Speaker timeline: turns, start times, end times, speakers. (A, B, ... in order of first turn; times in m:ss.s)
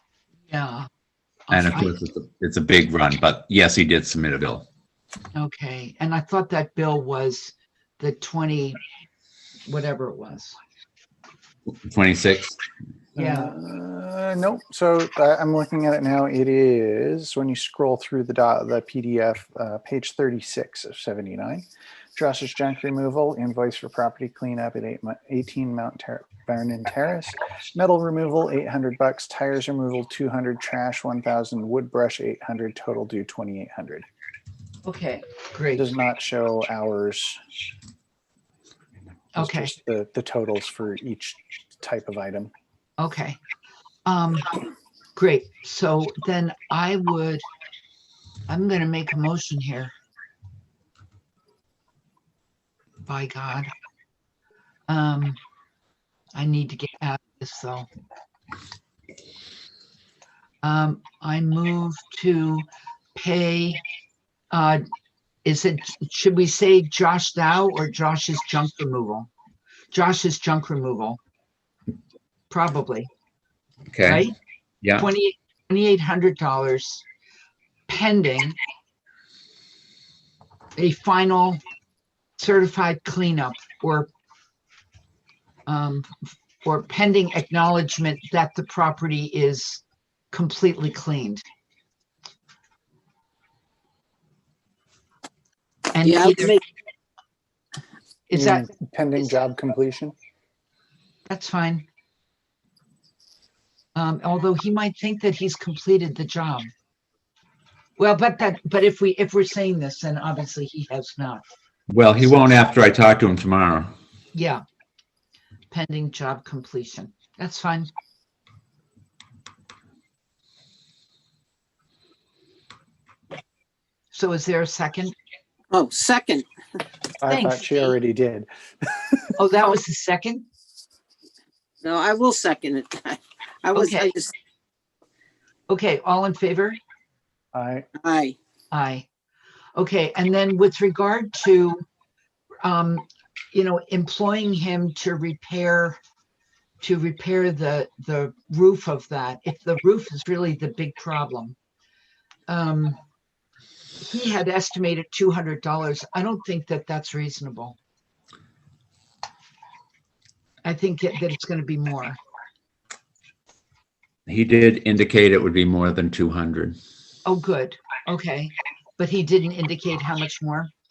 0:00.5-0:00.9 A
0:01.5-0:02.0 A
0:01.5-0:04.6 B
0:05.3-0:08.8 A
0:09.6-0:10.6 A
0:11.9-0:12.6 B
0:13.1-0:34.0 C
0:13.2-0:13.5 A
0:34.8-0:35.9 A
0:35.8-0:37.4 C
0:39.3-0:39.7 A
0:39.4-0:42.5 C
0:43.0-0:43.4 A
0:44.0-0:44.5 A
0:45.1-0:47.4 A
0:48.5-0:49.9 A
0:53.0-0:53.7 A
0:54.9-0:55.4 A
0:56.3-0:57.9 A
1:00.6-1:03.8 A
1:04.5-1:04.8 A
1:05.4-1:09.3 A
1:09.9-1:11.2 A
1:12.5-1:13.1 A
1:13.9-1:14.2 B
1:14.0-1:14.3 A
1:14.8-1:15.1 B
1:15.0-1:17.0 A
1:17.9-1:18.6 A
1:20.8-1:21.6 A
1:22.4-1:24.1 A
1:25.7-1:26.1 A
1:26.6-1:31.4 A
1:35.9-1:36.6 A
1:36.0-1:36.6 D
1:38.3-1:38.7 A
1:38.3-1:40.1 C
1:41.3-1:41.8 A
1:43.9-1:46.7 A
1:48.0-1:51.4 A
1:51.9-1:53.9 B
1:52.2-1:52.5 A
1:54.3-1:54.6 A
1:55.7-1:57.9 A
2:04.1-2:05.1 A
2:05.7-2:06.4 D
2:07.2-2:09.3 C
2:07.2-2:07.9 A
2:09.4-2:10.4 A
2:11.8-2:14.3 D
2:13.7-2:14.1 A
2:15.7-2:16.8 A
2:17.5-2:17.9 C
2:18.0-2:18.4 D
2:18.7-2:19.1 A
2:19.8-2:21.8 A
2:22.6-2:26.0 A
2:26.8-2:31.6 A
2:32.5-2:33.0 A
2:34.0-2:37.8 A
2:40.6-2:42.2 A
2:44.3-2:46.8 B
2:47.2-2:50.7 A